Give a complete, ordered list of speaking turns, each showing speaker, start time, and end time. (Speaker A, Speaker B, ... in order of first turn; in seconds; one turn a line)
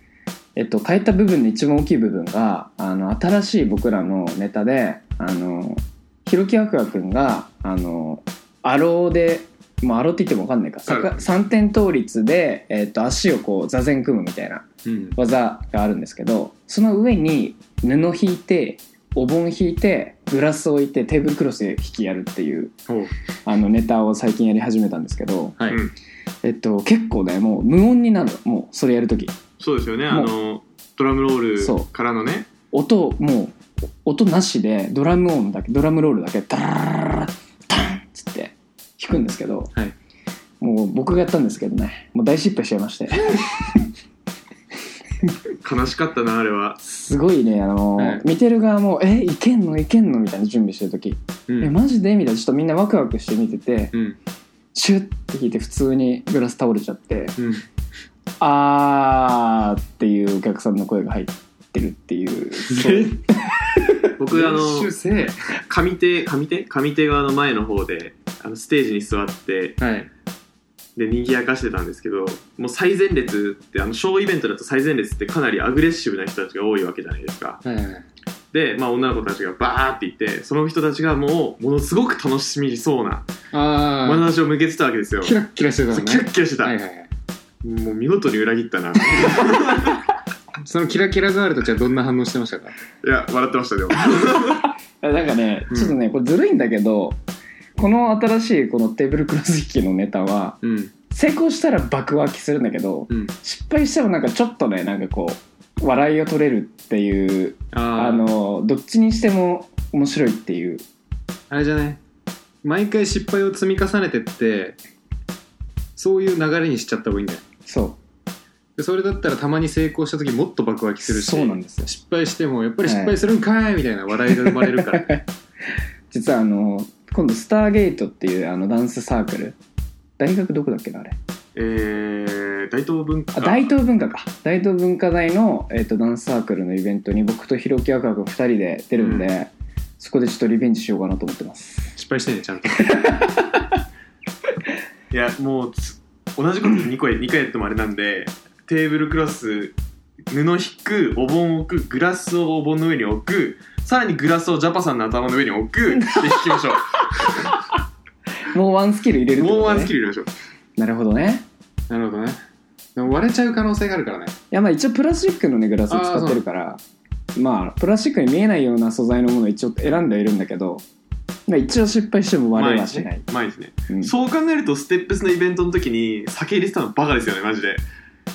Speaker A: 0.6-14.7
Speaker B: 10.9-11.3
Speaker B: 14.8-15.2
Speaker A: 15.2-22.8
Speaker A: 23.4-25.6
Speaker A: 26.4-29.4
Speaker C: 29.6-32.5
Speaker A: 31.6-31.9
Speaker A: 32.7-39.7
Speaker A: 40.6-43.8
Speaker C: 45.6-46.8
Speaker A: 46.8-53.9
Speaker B: 48.0-48.2
Speaker B: 51.5-51.8
Speaker A: 54.7-57.4
Speaker B: 57.4-57.6
Speaker A: 58.4-64.1
Speaker B: 62.6-63.2
Speaker C: 64.2-64.9
Speaker B: 64.3-65.5
Speaker C: 65.7-69.8
Speaker B: 69.8-70.1
Speaker C: 71.0-77.6
Speaker B: 77.6-78.1
Speaker C: 78.5-83.3
Speaker B: 83.5-84.3
Speaker C: 84.0-85.4
Speaker B: 85.2-87.1
Speaker C: 85.9-86.8
Speaker C: 87.6-90.0
Speaker B: 90.6-92.8
Speaker C: 93.0-94.7
Speaker A: 94.1-97.2
Speaker B: 95.7-96.0
Speaker A: 97.8-100.6
Speaker B: 100.6-100.9
Speaker A: 101.1-110.8
Speaker B: 103.1-103.3
Speaker B: 107.7-108.3
Speaker B: 111.5-112.0
Speaker B: 112.6-114.8
Speaker B: 116.0-117.4
Speaker A: 117.7-118.0
Speaker B: 118.8-125.2
Speaker A: 121.0-121.8
Speaker A: 122.8-123.2
Speaker A: 124.3-125.2
Speaker A: 126.1-129.6
Speaker A: 130.2-131.2
Speaker C: 131.6-133.7
Speaker A: 133.3-141.9
Speaker B: 139.0-139.3
Speaker B: 142.0-143.1
Speaker A: 142.9-143.4
Speaker C: 145.1-149.8
Speaker C: 150.3-157.5
Speaker A: 156.0-156.6
Speaker A: 158.5-159.9
Speaker C: 159.4-160.3
Speaker A: 160.8-161.5
Speaker B: 161.9-162.4
Speaker B: 163.0-164.3
Speaker A: 164.5-166.8
Speaker B: 165.9-166.4
Speaker A: 167.3-170.8
Speaker A: 171.5-173.2
Speaker C: 172.6-177.8